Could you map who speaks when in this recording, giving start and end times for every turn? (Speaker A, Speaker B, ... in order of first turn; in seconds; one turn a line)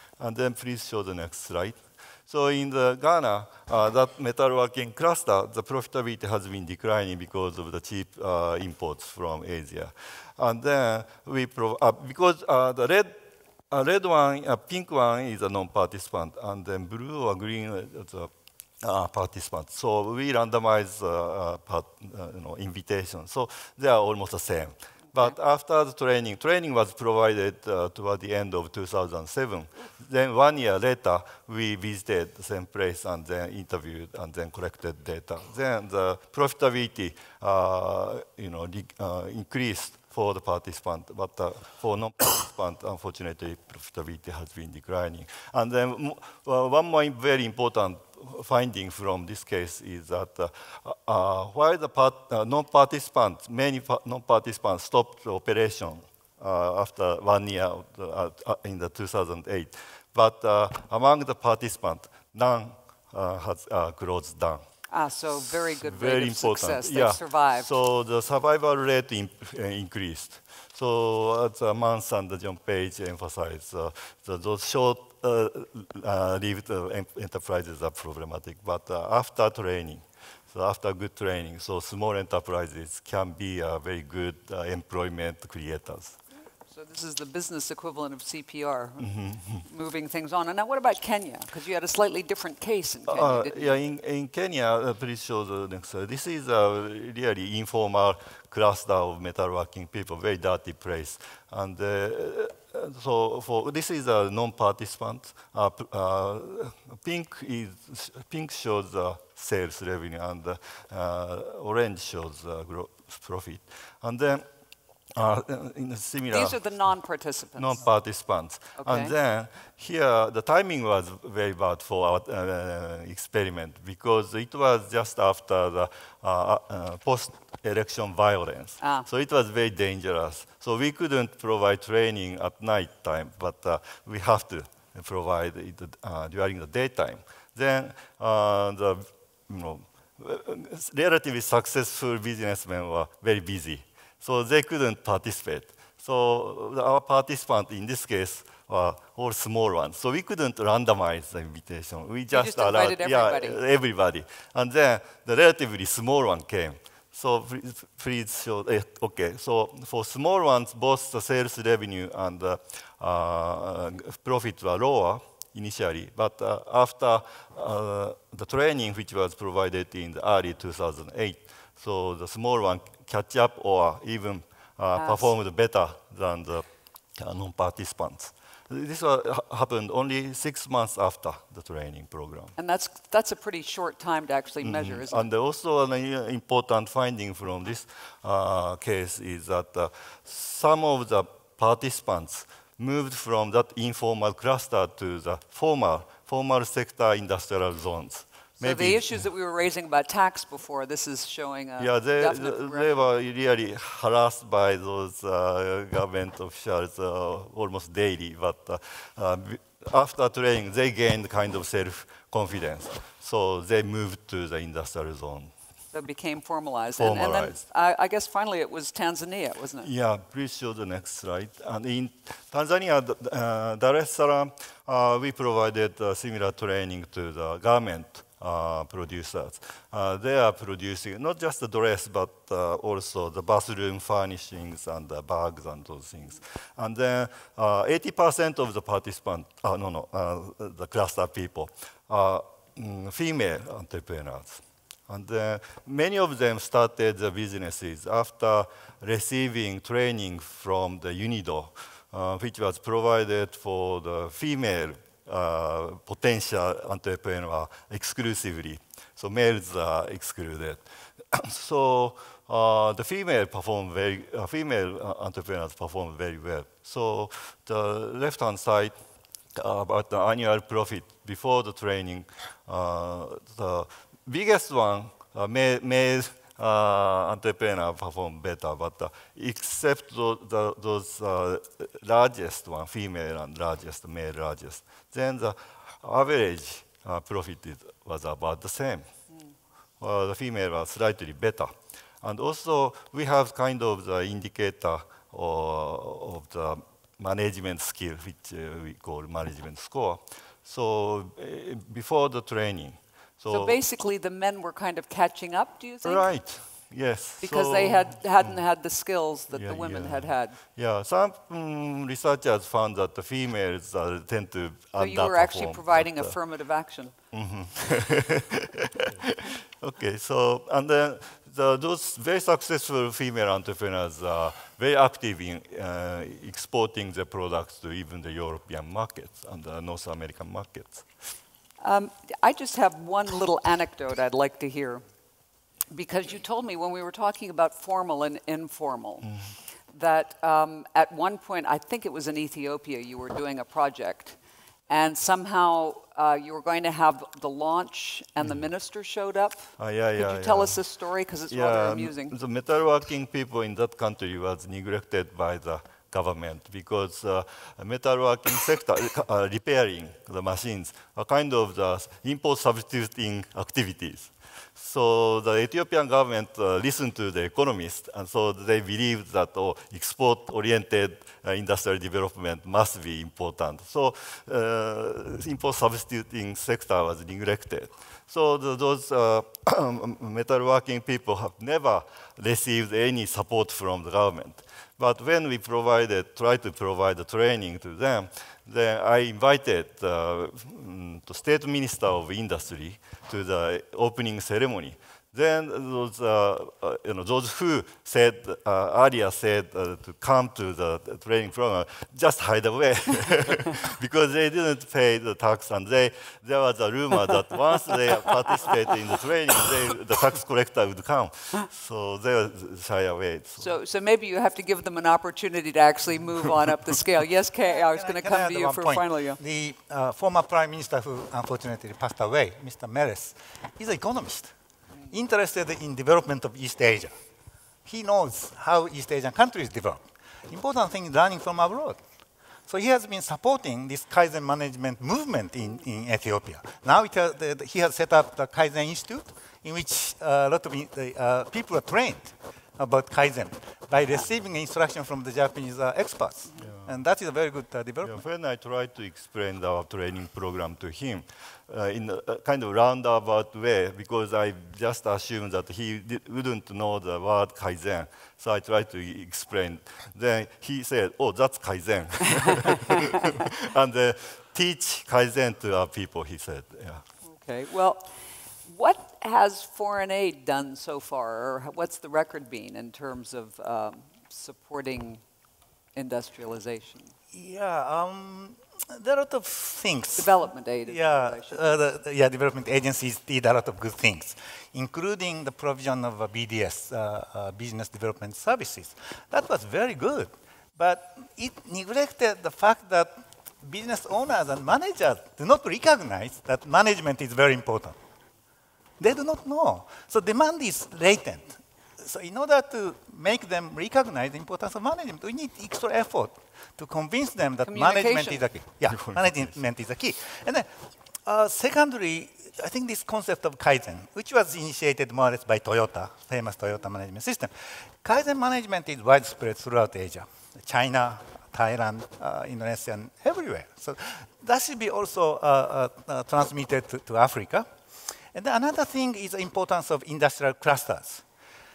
Speaker A: 0.2-13.2
Speaker A: 13.7-18.3
Speaker A: 18.8-64.6
Speaker B: 64.9-67.7
Speaker A: 65.4-86.2
Speaker B: 86.7-89.1
Speaker A: 89.0-89.7
Speaker B: 89.6-93.8
Speaker A: 93.1-114.4
Speaker A: 115.1-116.6
Speaker B: 116.3-117.8
Speaker A: 117.5-176.7
Speaker B: 118.8-119.1
Speaker B: 128.8-129.1
Speaker B: 152.3-153.6
Speaker B: 174.9-175.3
Speaker A: 177.2-182.5
Speaker B: 182.6-185.3
Speaker A: 184.6-199.2
Speaker B: 198.6-203.0
Speaker A: 201.8-215.5
Speaker B: 215.9-219.9
Speaker A: 217.0-217.6
Speaker A: 219.8-268.9
Speaker A: 269.5-289.1
Speaker A: 290.0-303.8
Speaker B: 303.5-306.3
Speaker A: 306.0-308.6
Speaker B: 307.4-310.6
Speaker A: 309.5-316.4
Speaker B: 315.0-317.1
Speaker A: 317.3-331.1
Speaker B: 331.8-335.0
Speaker B: 335.9-339.3
Speaker B: 339.9-344.4
Speaker B: 344.9-352.3
Speaker A: 349.8-350.8
Speaker A: 351.5-413.7
Speaker B: 413.6-419.4
Speaker C: 417.7-424.5
Speaker C: 425.1-427.1
Speaker C: 427.8-432.0
Speaker C: 432.7-448.2
Speaker A: 448.0-467.0
Speaker B: 467.3-468.1
Speaker B: 468.6-475.2
Speaker B: 475.9-477.1
Speaker C: 477.3-498.0
Speaker B: 480.1-481.6
Speaker C: 499.0-510.7
Speaker B: 507.7-508.5
Speaker C: 511.2-527.7
Speaker C: 528.3-531.2